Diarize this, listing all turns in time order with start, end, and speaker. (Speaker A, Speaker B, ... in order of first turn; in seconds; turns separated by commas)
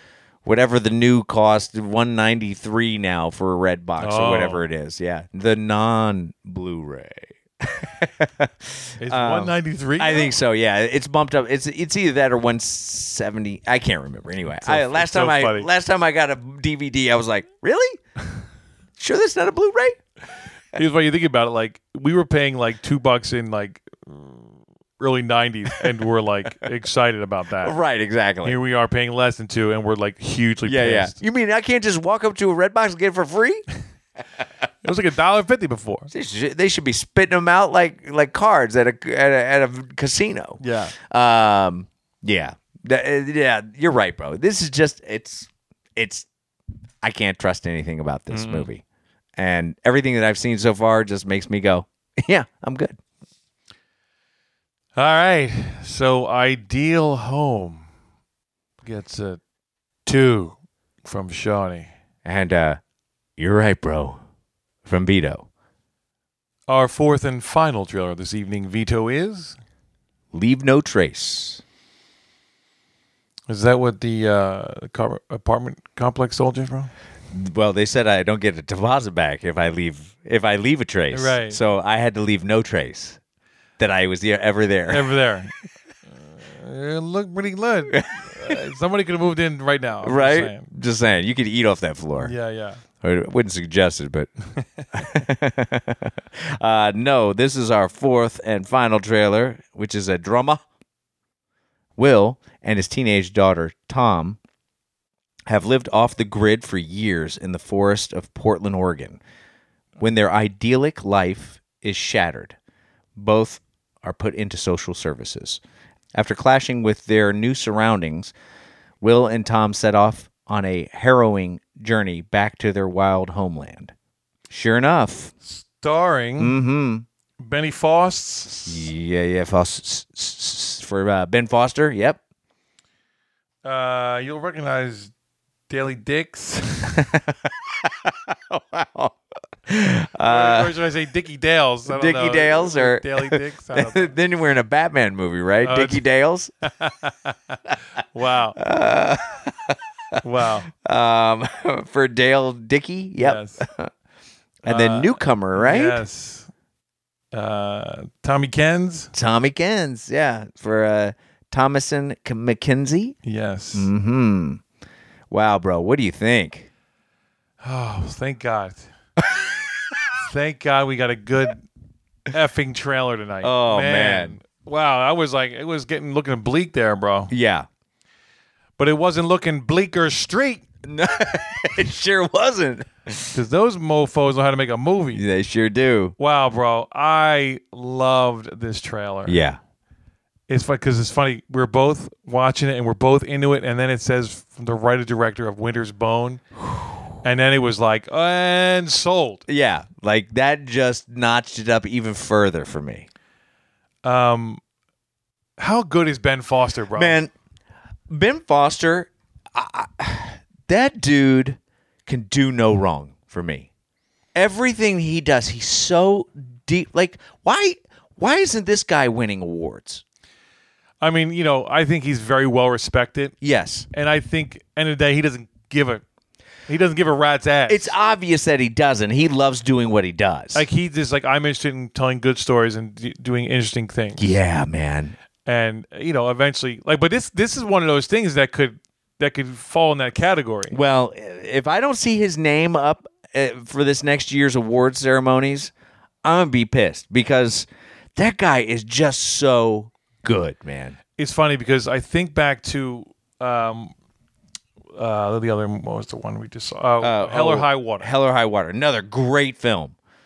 Speaker A: 0.4-18.0, Speaker B: 4.0-4.6, Speaker B: 9.0-10.3, Speaker B: 14.6-15.7, Speaker A: 19.0-20.0, Speaker B: 20.7-27.8, Speaker A: 27.6-28.6, Speaker B: 28.4-31.2, Speaker A: 30.6-33.6, Speaker B: 34.8-36.1, Speaker A: 36.1-46.3, Speaker B: 40.6-40.9, Speaker A: 47.0-48.8, Speaker B: 48.3-48.7, Speaker A: 49.4-53.0, Speaker B: 55.0-57.9, Speaker B: 58.8-59.4, Speaker B: 60.0-61.9, Speaker A: 62.2-62.8, Speaker A: 63.4-64.2, Speaker A: 64.8-65.5, Speaker B: 66.7-69.6, Speaker A: 70.3-71.6, Speaker B: 73.5-76.9, Speaker A: 77.3-83.2, Speaker B: 81.1-81.6, Speaker A: 83.8-85.2, Speaker B: 84.9-85.5, Speaker B: 86.2-90.7, Speaker A: 87.9-88.6, Speaker A: 90.0-92.3, Speaker B: 92.2-92.8, Speaker A: 93.0-94.3, Speaker A: 94.9-100.6, Speaker A: 102.0-104.4, Speaker A: 105.5-109.2, Speaker A: 110.0-112.6, Speaker A: 113.2-115.6, Speaker A: 116.1-118.3, Speaker A: 119.0-123.9, Speaker A: 124.5-125.3, Speaker B: 125.4-126.6, Speaker A: 126.4-127.0, Speaker B: 127.4-128.8, Speaker A: 128.7-132.2, Speaker B: 133.6-135.1, Speaker B: 135.7-137.1, Speaker A: 136.9-140.7, Speaker B: 140.2-144.1, Speaker A: 141.9-146.5, Speaker B: 145.6-146.0, Speaker B: 146.6-147.6, Speaker B: 148.1-148.6, Speaker A: 148.6-149.8, Speaker B: 150.2-150.7, Speaker A: 150.7-153.9, Speaker B: 153.2-153.6, Speaker A: 154.6-156.0, Speaker B: 154.7-156.5, Speaker B: 157.3-159.1, Speaker A: 159.1-163.2, Speaker B: 163.2-163.9, Speaker A: 163.7-164.6, Speaker A: 165.3-166.7, Speaker B: 167.6-168.9, Speaker B: 170.2-171.7, Speaker B: 172.3-177.3, Speaker A: 173.4-174.4, Speaker A: 177.3-177.7, Speaker B: 178.8-180.6, Speaker A: 180.8-183.3, Speaker B: 183.3-185.2, Speaker A: 185.1-186.1, Speaker B: 186.2-189.4, Speaker A: 189.2-189.6, Speaker B: 190.5-196.4, Speaker A: 196.6-197.0, Speaker B: 197.2-199.4, Speaker A: 199.5-203.1, Speaker B: 204.0-204.6, Speaker B: 205.6-207.2, Speaker A: 206.9-207.3, Speaker A: 208.1-213.7, Speaker A: 214.3-220.0, Speaker B: 221.0-223.3, Speaker A: 223.4-223.9, Speaker B: 223.9-226.0, Speaker B: 226.7-227.9, Speaker A: 227.7-230.6, Speaker B: 230.5-234.4, Speaker A: 234.2-235.2, Speaker B: 235.4-240.8, Speaker A: 240.7-245.7, Speaker A: 246.2-251.0, Speaker B: 251.2-253.9, Speaker B: 254.9-258.1, Speaker A: 257.0-259.9